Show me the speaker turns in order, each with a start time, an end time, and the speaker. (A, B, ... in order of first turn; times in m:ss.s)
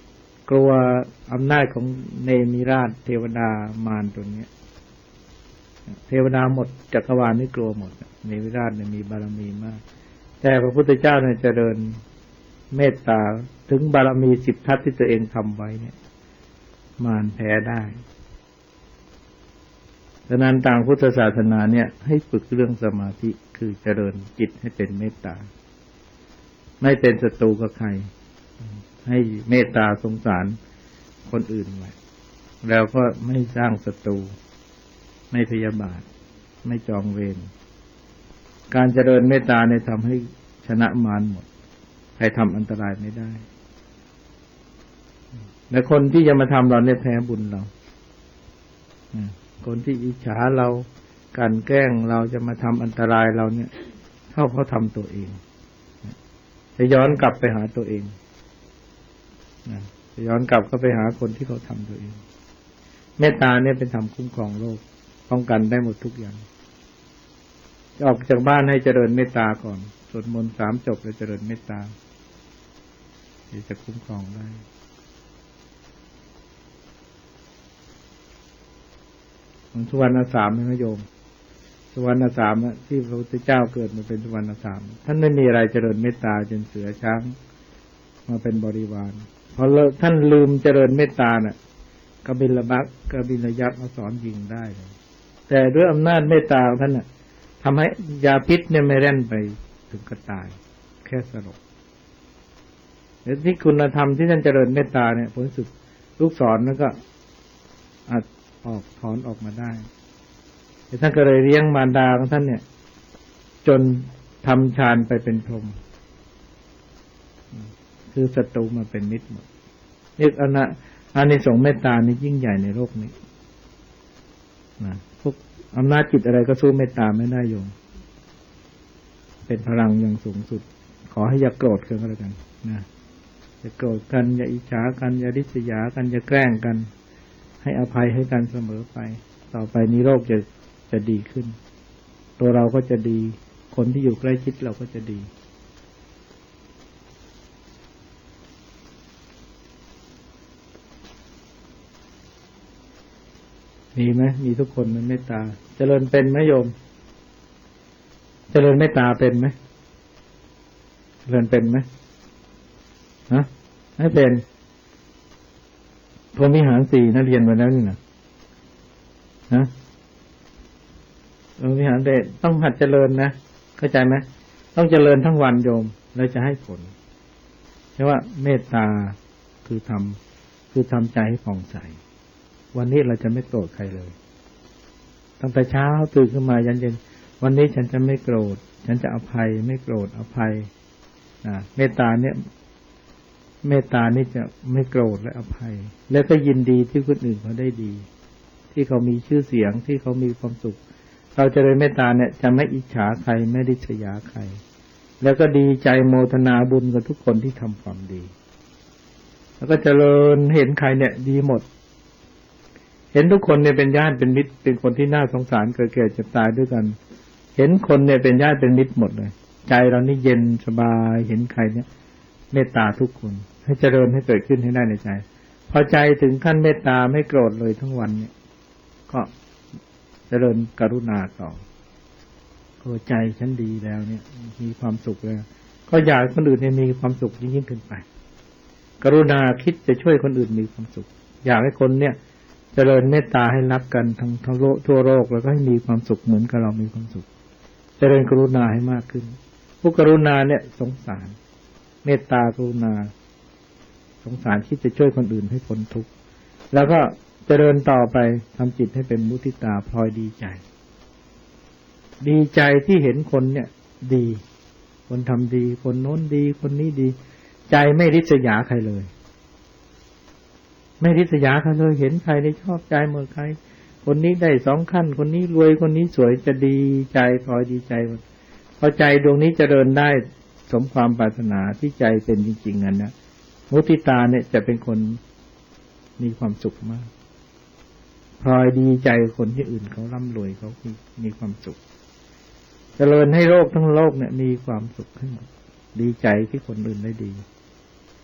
0:00.5-0:04.5 A
0:06.0-0:09.8 A
0:10.4-0:12.0 A
0:12.7-0:16.0 A
0:17.0-0:18.0 A
0:20.3-0:25.5 A
0:26.8-0:28.1 A
0:29.0-0:30.6 A
0:31.2-0:32.0 A
0:32.6-0:34.3 A
0:35.3-0:36.1 A
0:36.6-0:37.5 A
0:38.7-0:41.5 A
0:42.2-0:43.4 A
0:45.7-0:47.7 A
0:49.1-0:53.7 A
0:54.3-0:55.4 A
0:56.8-0:58.1 A
0:59.7-1:02.2 A
1:03.2-1:06.4 A
1:08.0-1:11.9 A
1:13.5-1:14.6 A
1:19.7-1:21.0 A
1:21.9-1:27.4 A
1:28.3-1:31.6 A
1:32.2-1:34.9 A
1:35.5-1:37.1 A
1:37.6-1:41.6 A
1:43.2-1:46.9 A
1:48.1-1:49.9 A
1:50.9-1:52.6 A
1:53.6-1:55.8 A
1:57.5-1:59.5 A
2:00.2-2:03.1 A
2:04.8-2:07.7 A
2:09.5-2:12.9 A
2:13.6-2:16.9 A
2:17.6-2:21.6 A
2:22.4-2:25.3 A
2:34.0-2:36.7 A
2:38.5-2:39.5 A
2:41.3-2:41.9 A
2:43.3-2:44.4 A
2:46.3-2:48.0 A
2:51.6-2:56.9 A
2:58.0-3:00.2 A
3:00.7-3:02.0 A
3:02.7-3:04.2 A
3:05.4-3:10.7 A
3:11.4-3:12.4 A
3:13.6-3:18.1 A
3:18.7-3:20.8 A
3:21.4-3:24.6 A
3:25.2-3:28.3 A
3:29.6-3:31.7 A
3:33.1-3:37.0 A
3:37.6-3:41.9 A
3:42.5-3:48.3 A
3:50.3-3:51.6 A
3:52.8-3:58.1 A
3:59.0-4:02.2 A
4:02.8-4:07.3 A
4:08.0-4:11.4 A
4:12.0-4:13.1 A
4:14.2-4:16.1 A
4:16.7-4:20.6 A
4:22.2-4:24.4 A
4:25.1-4:27.2 A
4:27.7-4:29.1 A
4:31.0-4:38.2 A
4:38.8-4:43.1 A
4:43.7-4:45.2 A
4:46.2-4:47.1 A
4:48.4-4:51.8 A
4:53.0-4:57.4 A